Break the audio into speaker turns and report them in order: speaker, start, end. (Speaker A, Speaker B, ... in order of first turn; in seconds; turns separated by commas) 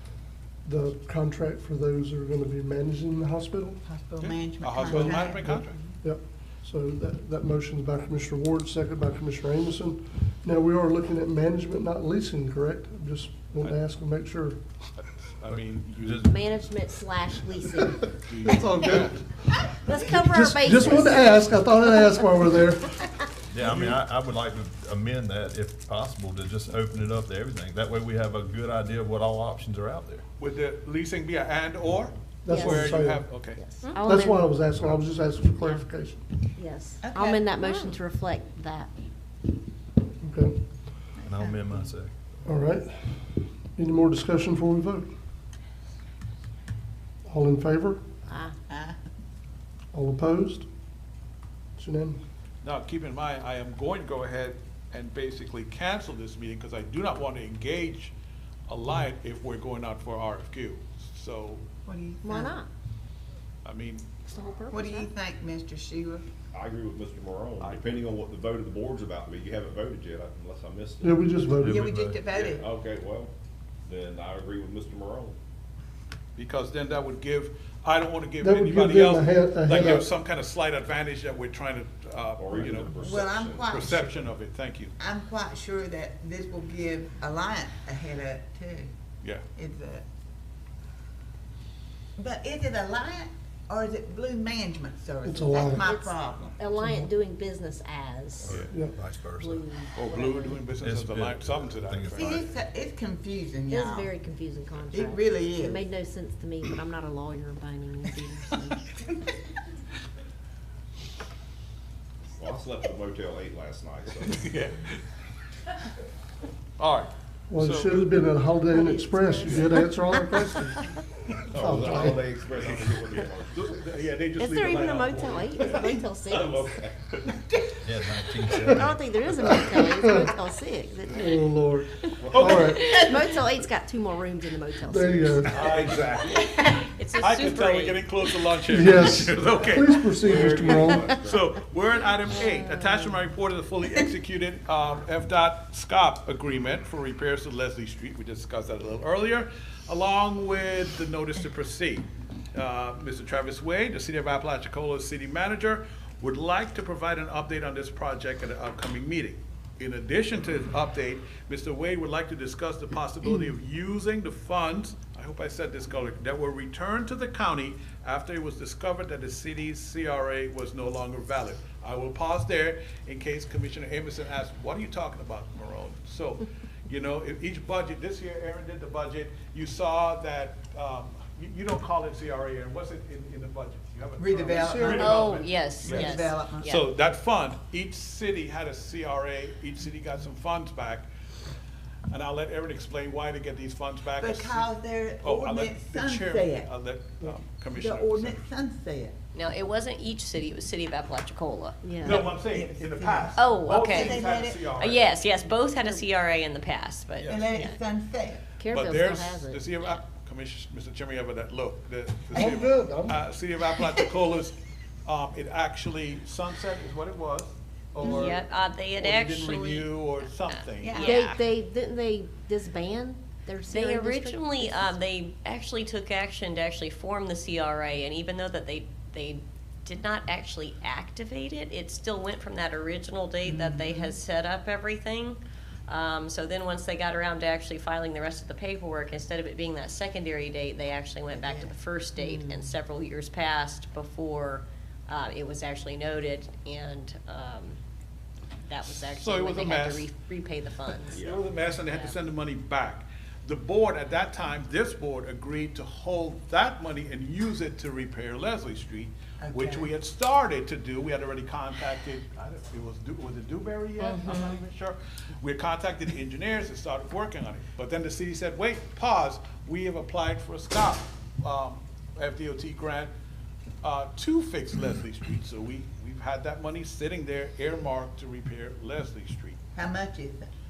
Speaker A: 0.6-3.8, Speaker B: 3.8-5.5, Speaker C: 4.2-5.8, Speaker A: 4.9-14.6, Speaker C: 15.0-16.3, Speaker D: 15.5-16.4, Speaker E: 16.2-18.1, Speaker C: 18.1-19.2, Speaker A: 18.4-19.3, Speaker E: 19.8-21.6, Speaker A: 20.0-23.1, Speaker D: 23.5-30.2, Speaker C: 23.6-24.0, Speaker C: 30.4-33.8, Speaker A: 32.4-33.3, Speaker E: 32.5-32.9, Speaker E: 33.6-34.5, Speaker A: 34.0-36.2, Speaker E: 36.6-38.9, Speaker B: 37.0-37.9, Speaker A: 40.2-40.6, Speaker B: 41.2-41.7, Speaker D: 41.2-42.1, Speaker A: 42.4-43.2, Speaker A: 43.7-45.1, Speaker A: 47.2-48.0, Speaker E: 48.3-48.5, Speaker B: 48.7-49.0, Speaker A: 49.9-50.6, Speaker A: 51.8-52.2, Speaker C: 52.6-58.1, Speaker C: 58.7-61.6, Speaker B: 61.9-62.6, Speaker E: 62.2-62.7, Speaker C: 63.6-64.2, Speaker E: 64.2-65.1, Speaker B: 64.7-66.2, Speaker F: 66.5-71.2, Speaker C: 67.6-67.9, Speaker A: 71.0-71.8, Speaker D: 71.5-72.2, Speaker B: 71.6-72.7, Speaker F: 72.3-73.3, Speaker F: 73.8-75.3, Speaker C: 76.3-83.0, Speaker A: 78.4-80.1, Speaker F: 82.4-83.8, Speaker B: 83.0-84.1, Speaker C: 83.7-85.0, Speaker B: 85.0-88.9, Speaker B: 89.5-90.0, Speaker B: 92.2-96.6, Speaker A: 95.2-95.9, Speaker E: 95.7-98.7, Speaker A: 96.8-97.1, Speaker D: 98.4-99.6, Speaker C: 98.5-98.8, Speaker A: 98.7-99.0, Speaker E: 99.3-100.5, Speaker C: 99.9-102.5, Speaker D: 100.8-102.5, Speaker B: 102.1-104.1, Speaker E: 103.7-108.8, Speaker B: 104.9-105.8, Speaker F: 112.3-114.4, Speaker C: 114.2-115.0, Speaker C: 116.8-118.1, Speaker A: 117.5-120.9, Speaker E: 118.7-120.2, Speaker F: 121.5-123.8, Speaker A: 121.5-122.3, Speaker D: 122.6-123.0, Speaker C: 122.6-126.0, Speaker E: 124.4-126.7, Speaker F: 126.2-127.1, Speaker D: 127.8-129.6, Speaker A: 128.5-128.8, Speaker E: 128.7-131.3, Speaker A: 129.4-130.3, Speaker A: 131.1-133.1, Speaker F: 132.2-132.9, Speaker E: 132.4-135.5, Speaker D: 132.6-133.1, Speaker A: 134.9-135.6, Speaker C: 135.4-140.3, Speaker F: 135.5-136.1, Speaker G: 136.3-138.2, Speaker A: 138.7-141.1, Speaker F: 140.2-141.5, Speaker C: 141.1-191.1, Speaker E: 142.5-142.9, Speaker B: 184.2-185.3, Speaker G: 184.8-186.8, Speaker B: 185.8-186.7, Speaker C: 192.1-198.4, Speaker B: 194.2-196.7, Speaker B: 197.7-199.1, Speaker G: 199.3-201.9, Speaker E: 201.8-202.2, Speaker B: 202.0-204.7, Speaker C: 202.0-205.3, Speaker G: 203.4-207.8, Speaker C: 207.2-207.5, Speaker B: 207.2-208.4, Speaker E: 208.6-209.6, Speaker C: 208.7-214.5, Speaker B: 212.3-212.6, Speaker A: 212.3-213.2, Speaker B: 213.7-214.0, Speaker C: 215.1-221.1, Speaker B: 218.0-218.3, Speaker G: 218.0-219.9, Speaker G: 220.4-221.4, Speaker B: 220.8-221.1, Speaker E: 221.0-225.0, Speaker G: 223.7-247.8, Speaker B: 241.3-241.7, Speaker E: 242.2-242.6, Speaker G: 248.6-251.3, Speaker C: 248.8-250.1, Speaker C: 251.0-273.1, Speaker F: 251.1-251.5, Speaker G: 251.9-252.2, Speaker B: 259.4-259.9, Speaker G: 264.0-264.6, Speaker C: 273.8-279.6, Speaker B: 279.7-280.5